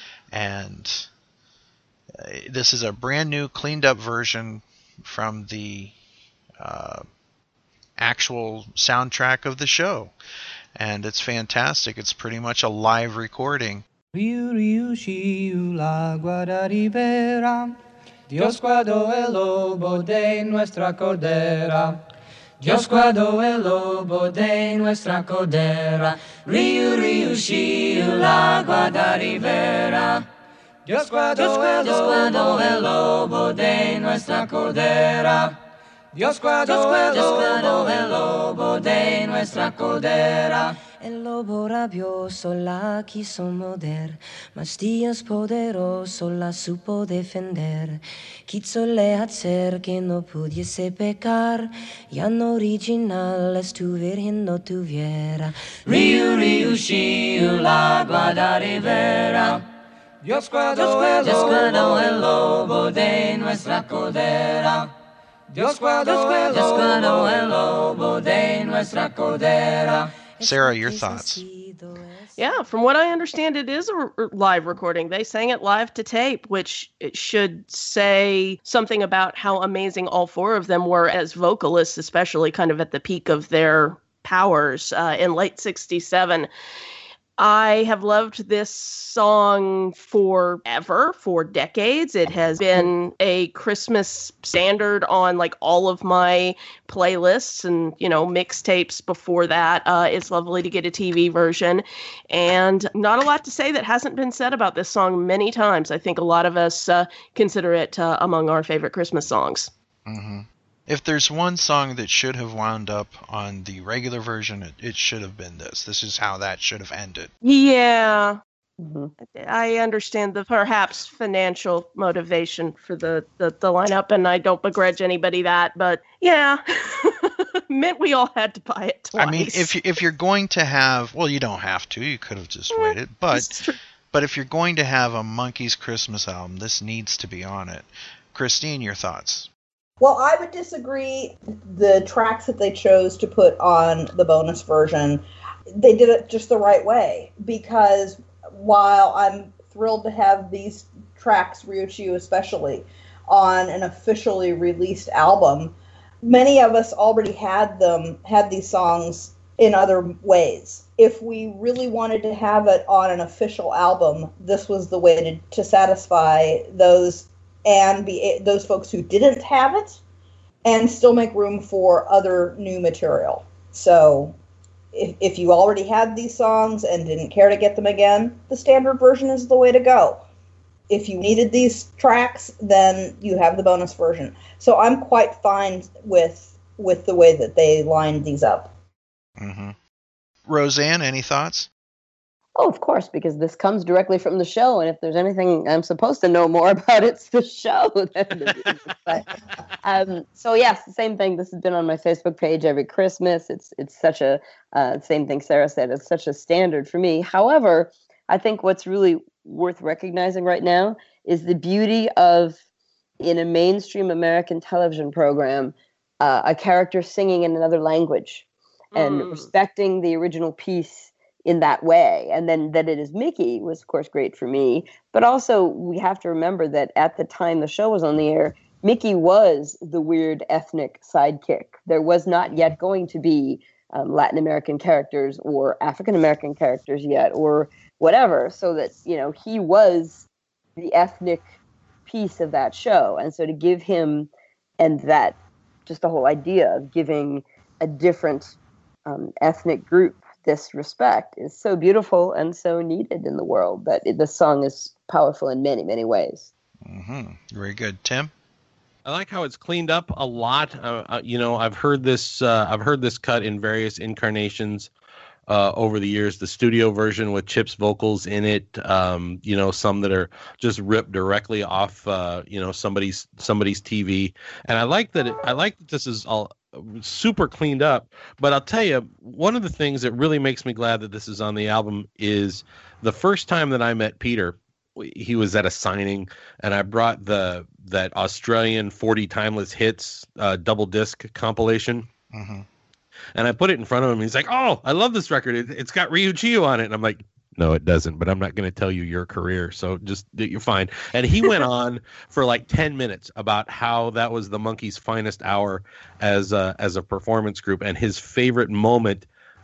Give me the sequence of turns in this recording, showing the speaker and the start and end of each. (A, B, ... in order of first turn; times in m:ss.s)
0:00.3-0:01.1 A
0:02.1-0:05.9 A
0:06.6-0:07.0 A
0:08.0-0:10.1 A
0:10.8-0:13.8 A
0:14.1-0:17.8 B
0:18.3-0:22.0 B
0:22.6-0:30.2 B
0:30.8-0:35.6 B
0:32.0-0:32.6 C
0:36.1-0:40.8 B
0:36.7-0:38.2 C
0:40.9-0:59.4 C
0:59.2-0:59.6 B
1:00.2-1:04.9 B
1:01.2-1:02.7 C
1:05.5-1:10.1 B
1:06.5-1:07.6 C
1:10.4-1:12.5 C
1:10.4-1:11.4 A
1:12.4-1:26.5 D
1:27.4-1:49.7 D
1:50.0-1:57.3 A
1:57.4-1:58.4 D
1:58.8-1:59.1 E
1:59.2-2:09.7 D
2:09.2-2:13.6 A
2:12.7-2:13.8 D
2:14.1-2:19.5 A
2:20.0-2:25.2 F
2:25.7-2:50.0 F
2:50.6-2:54.4 F
2:54.9-3:00.2 F
3:00.9-3:08.7 F
3:09.4-3:09.8 A
3:10.5-3:11.7 A
3:12.6-3:19.3 E
3:19.8-3:32.6 E
3:33.2-3:38.4 E
3:38.9-3:39.5 D
3:39.0-4:00.2 E
4:00.8-4:01.5 E
4:02.0-4:16.5 E
4:16.8-4:18.3 A
4:19.0-4:24.9 G
4:25.5-4:52.1 G
4:52.3-4:52.6 A
4:53.3-5:09.3 G